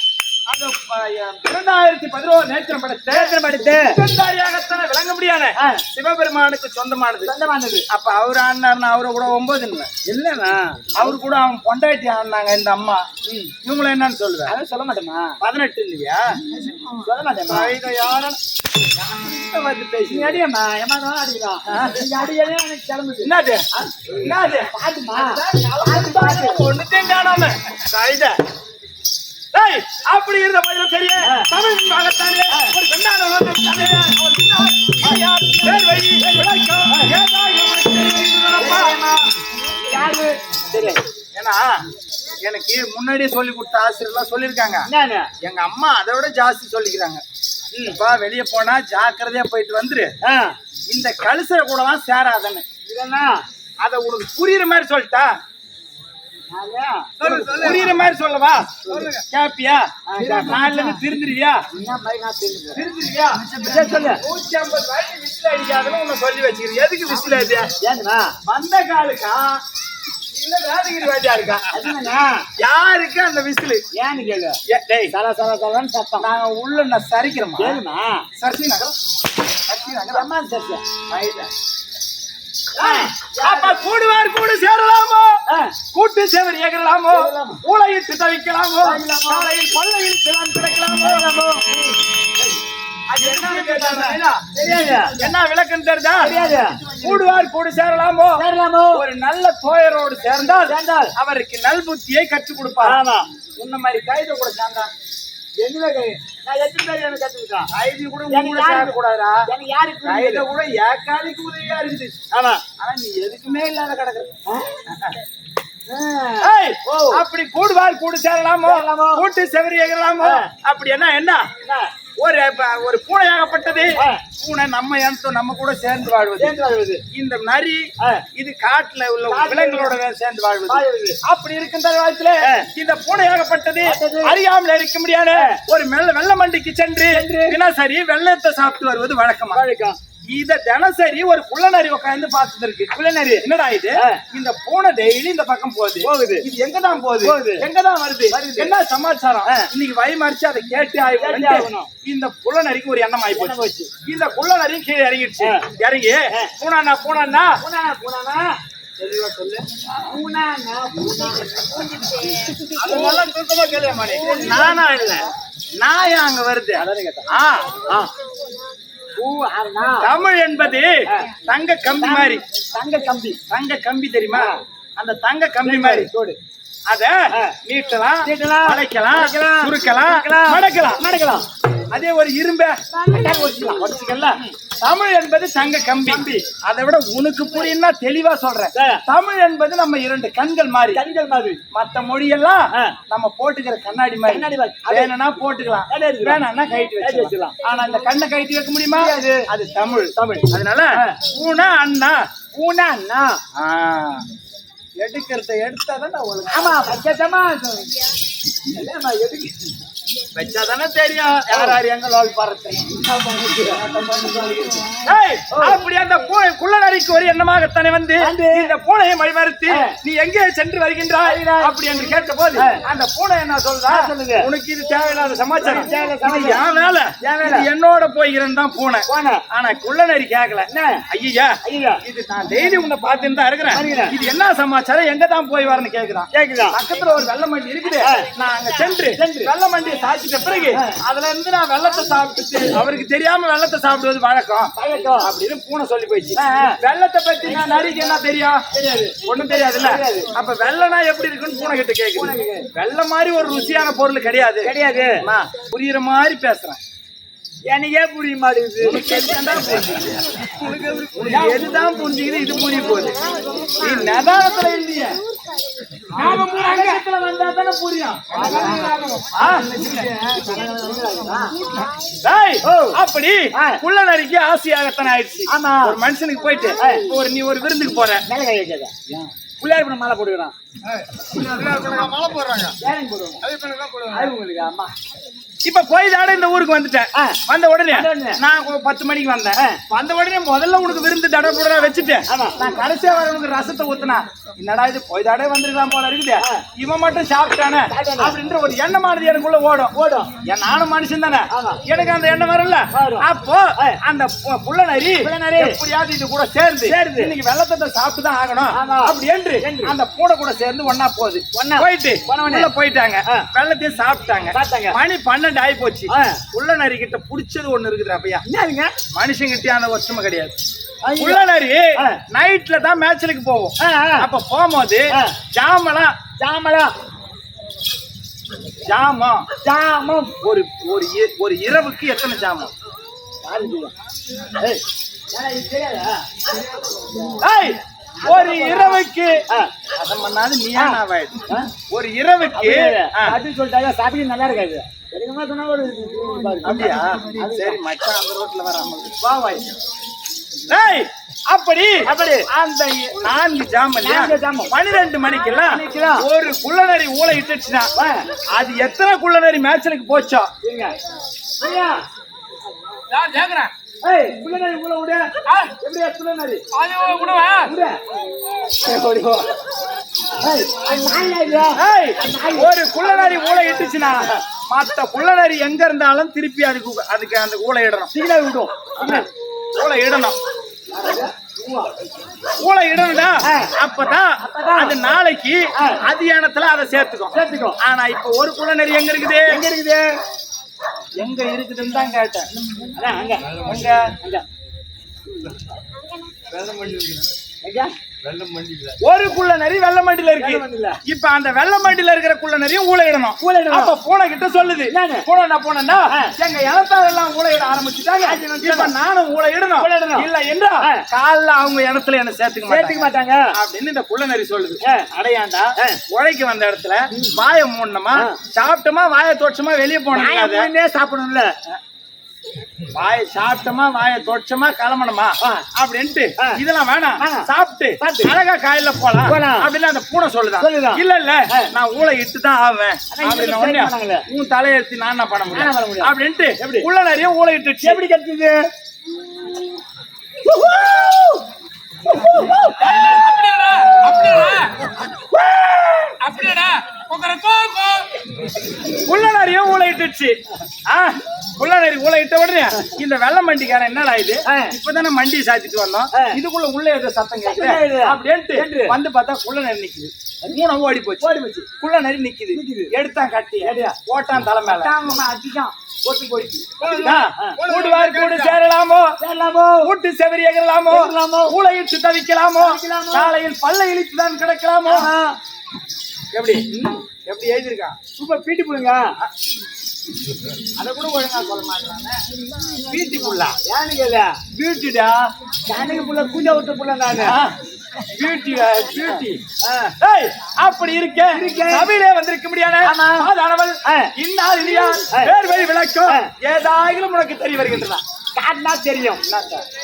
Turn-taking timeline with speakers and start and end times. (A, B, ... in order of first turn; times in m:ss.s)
0:00.5-0:07.3 A
0:03.1-0:04.0 B
0:07.2-0:07.8 B
0:07.9-0:09.9 A
0:10.0-0:10.9 B
0:10.9-0:13.0 A
0:13.2-0:13.5 B
0:13.6-0:14.5 A
0:14.4-0:15.4 B
0:15.4-0:16.2 A
0:16.5-0:17.8 B
0:17.4-0:18.4 A
0:18.9-0:20.4 A
0:20.1-0:26.6 B
0:21.7-0:22.0 A
0:23.2-0:28.4 A
0:29.5-0:39.0 A
0:31.2-0:31.5 B
0:35.0-0:37.1 B
0:38.6-0:39.3 B
0:39.9-0:41.0 B
0:41.3-0:41.8 A
0:42.4-0:44.8 A
0:44.9-0:45.3 B
0:45.4-0:47.2 A
0:47.7-0:48.0 B
0:47.9-0:50.1 A
0:50.2-0:50.6 B
0:50.9-0:52.6 A
0:52.9-0:53.4 B
0:53.8-0:55.4 A
0:56.5-0:58.0 B
0:57.2-1:01.6 A
0:58.8-0:59.1 B
1:00.1-1:01.0 B
1:01.7-1:02.9 B
1:02.8-1:07.7 A
1:03.6-1:04.2 B
1:07.8-1:08.3 B
1:08.4-1:09.6 A
1:10.3-1:11.7 A
1:11.7-1:12.4 B
1:12.6-1:13.8 A
1:13.9-1:14.6 B
1:14.7-1:15.1 A
1:15.1-1:16.3 B
1:16.2-1:17.8 A
1:17.6-1:18.2 B
1:18.4-1:18.9 A
1:19.6-1:20.3 A
1:20.1-1:20.8 B
1:21.1-1:21.5 A
1:22.8-1:23.8 B
1:22.8-1:25.4 A
1:25.5-1:25.7 B
1:25.9-1:31.3 A
1:27.1-1:27.6 B
1:28.8-1:29.5 B
1:31.0-1:31.8 B
1:33.1-1:34.4 A
1:33.2-1:35.2 B
1:35.1-1:43.0 A
1:36.2-1:37.1 B
1:38.4-1:39.0 B
1:40.7-1:41.1 B
1:42.8-1:43.2 B
1:43.6-1:44.9 A
1:45.6-1:47.7 B
1:47.7-1:49.4 A
1:48.3-1:49.0 B
1:49.5-1:50.4 B
1:50.0-1:52.2 A
1:52.3-1:52.6 B
1:52.8-1:54.3 A
1:54.8-1:55.2 A
1:55.9-1:57.2 B
1:56.4-2:01.5 A
1:58.6-1:59.2 B
2:00.2-2:00.5 B
2:01.6-2:01.9 B
2:02.2-2:06.5 A
2:04.0-2:04.2 B
2:06.4-2:07.0 B
2:07.1-2:19.6 A
2:09.3-2:09.9 B
2:10.7-2:11.2 B
2:13.8-2:14.4 B
2:17.1-2:17.6 B
2:19.5-2:20.0 B
2:20.3-2:37.6 A
2:22.9-2:23.4 B
2:26.0-2:26.4 B
2:27.2-2:27.6 B
2:28.3-2:28.7 B
2:31.2-2:31.9 B
2:33.3-2:33.9 B
2:37.6-2:38.5 B
2:39.0-2:39.6 A
2:40.0-2:43.2 B
2:42.7-2:45.2 A
2:44.1-2:45.2 B
2:45.8-2:47.9 A
2:46.8-2:47.3 B
2:49.2-2:50.1 B
2:50.0-2:52.4 A
2:52.0-2:53.4 B
2:53.5-2:56.1 A
2:54.3-2:54.6 B
2:55.6-2:56.4 B
2:56.9-3:01.0 A
2:58.2-3:01.4 B
3:01.9-3:02.8 A
3:03.0-3:04.5 B
3:03.4-3:11.0 A
3:06.1-3:06.5 B
3:08.7-3:09.0 B
3:10.9-3:11.6 B
3:11.7-3:22.2 A
3:14.3-3:15.1 B
3:15.9-3:16.4 B
3:17.0-3:17.6 B
3:19.0-3:19.5 B
3:20.1-3:21.2 B
3:22.6-3:23.4 B
3:23.6-3:24.2 A
3:25.0-3:26.9 A
3:26.5-3:28.0 B
3:28.6-3:29.7 B
3:30.3-3:33.0 A
3:31.5-3:31.8 B
3:32.8-3:34.9 B
3:33.9-4:08.6 A
3:35.5-3:35.8 B
3:38.2-3:38.6 B
3:39.7-3:39.9 B
3:41.2-3:41.7 B
3:43.9-3:44.5 B
3:45.6-3:46.6 B
3:47.2-3:47.7 B
3:49.1-3:49.4 B
3:50.7-3:51.0 B
3:51.6-3:52.0 B
3:53.7-3:54.1 B
3:56.3-3:56.8 B
3:58.0-3:58.3 B
3:59.1-3:59.5 B
4:04.8-4:05.3 B
4:06.4-4:06.8 B
4:07.5-4:08.0 B
4:08.7-4:09.2 B
4:09.2-4:14.7 A
4:09.8-4:10.3 B
4:12.2-4:12.6 B
4:14.6-4:15.2 B
4:15.2-4:16.8 A
4:17.7-4:19.2 B
4:18.8-4:23.2 A
4:20.7-4:21.1 C
4:23.8-4:25.2 A
4:26.1-4:29.1 B
4:26.2-4:28.7 A
4:26.2-4:26.9 C
4:28.7-4:29.3 C
4:29.3-4:29.9 A
4:29.7-4:31.6 B
4:31.6-4:38.2 A
4:32.6-4:33.0 B
4:33.5-4:33.8 B
4:35.5-4:36.0 B
4:36.8-4:37.1 B
4:38.3-4:38.9 B
4:39.6-4:40.5 B
4:40.9-4:42.8 A
4:42.8-4:43.4 B
4:43.4-4:44.3 A
4:44.1-4:44.9 B
4:45.6-5:18.4 A
4:47.9-4:48.4 B
4:52.3-4:52.5 B
4:57.9-4:58.4 B
4:59.9-5:00.3 B
5:01.5-5:01.8 B
5:02.9-5:03.2 B
5:05.2-5:05.8 B
5:06.8-5:07.3 B
5:08.7-5:09.9 B
5:11.5-5:12.7 B
5:14.5-5:14.9 B
5:16.1-5:16.4 B
5:18.4-5:18.9 B
5:19.1-5:20.6 A
5:21.0-5:21.4 B
5:21.2-5:26.1 A
5:22.0-5:22.2 B
5:23.8-5:24.3 B
5:26.4-5:26.9 B
5:28.8-5:29.5 A
5:29.6-5:30.3 B
5:30.4-5:32.7 A
5:33.4-5:33.9 B
5:35.3-5:37.4 B
5:37.4-5:39.4 A
5:38.2-5:39.7 B
5:40.0-5:43.4 A
5:40.8-5:41.7 B
5:42.5-5:47.8 B
5:46.6-5:49.8 A
5:50.7-5:52.0 A
5:52.0-5:52.4 B
5:52.5-5:57.9 A
5:54.0-5:54.7 B
5:55.7-5:56.2 B
5:58.0-5:58.3 B
5:58.5-6:00.5 A
6:00.6-6:00.9 B
6:01.6-6:02.0 B
6:03.1-6:03.7 C
6:04.0-6:06.6 B
6:06.7-6:07.7 C
6:07.6-6:08.0 B
6:08.6-6:09.5 A
6:10.4-6:12.8 B
6:11.8-6:18.1 A
6:18.1-6:19.3 B
6:19.0-6:20.4 A
6:20.9-6:21.9 B
6:22.6-6:29.6 A
6:23.4-6:23.7 B
6:24.4-6:25.0 B
6:27.3-6:27.8 B
6:29.5-6:30.0 B
6:31.2-6:32.5 A
6:32.9-6:33.5 B
6:33.5-6:34.1 A
6:36.5-6:37.3 A
6:37.6-6:37.9 B
6:39.0-7:00.7 A
6:40.4-6:41.0 B
6:43.4-6:44.0 B
6:44.9-6:45.2 B
6:48.2-6:48.9 B
6:49.8-6:50.3 B
6:52.7-6:53.5 B
7:00.1-7:01.5 B
7:02.9-7:18.0 A
7:07.2-7:07.5 B
7:08.0-7:08.4 B
7:09.3-7:09.7 B
7:10.6-7:11.7 B
7:13.1-7:14.2 B
7:15.5-7:16.9 B
7:17.8-7:18.6 B
7:20.4-7:21.4 B
7:22.1-7:23.3 B
7:22.8-7:24.9 C
7:23.0-7:24.5 A
7:25.5-7:26.1 B
7:26.2-7:28.1 C
7:28.9-7:45.1 A
7:34.5-7:34.7 B
7:37.4-7:39.0 B
7:41.2-7:41.7 B
7:42.5-7:42.9 B
7:43.6-7:44.0 B
7:44.6-7:48.3 B
7:46.8-7:49.1 A
7:47.7-7:48.2 C
7:49.2-7:49.9 B
7:49.8-7:55.1 A
7:50.9-7:51.6 B
7:52.6-7:53.3 B
7:54.8-7:55.4 B
7:56.3-7:56.6 A
7:56.7-7:57.0 B
7:57.2-7:58.0 A
7:58.2-7:59.1 B
8:00.8-8:03.6 A
8:03.6-8:04.4 B
8:04.5-8:05.3 A
8:05.6-8:07.4 B
8:07.2-8:07.5 A
8:08.0-8:09.4 A
8:09.0-8:09.9 B
8:10.0-8:18.0 A
8:11.3-8:11.9 B
8:12.8-8:13.3 B
8:13.8-8:14.1 B
8:18.4-8:19.2 B
8:19.2-8:19.6 A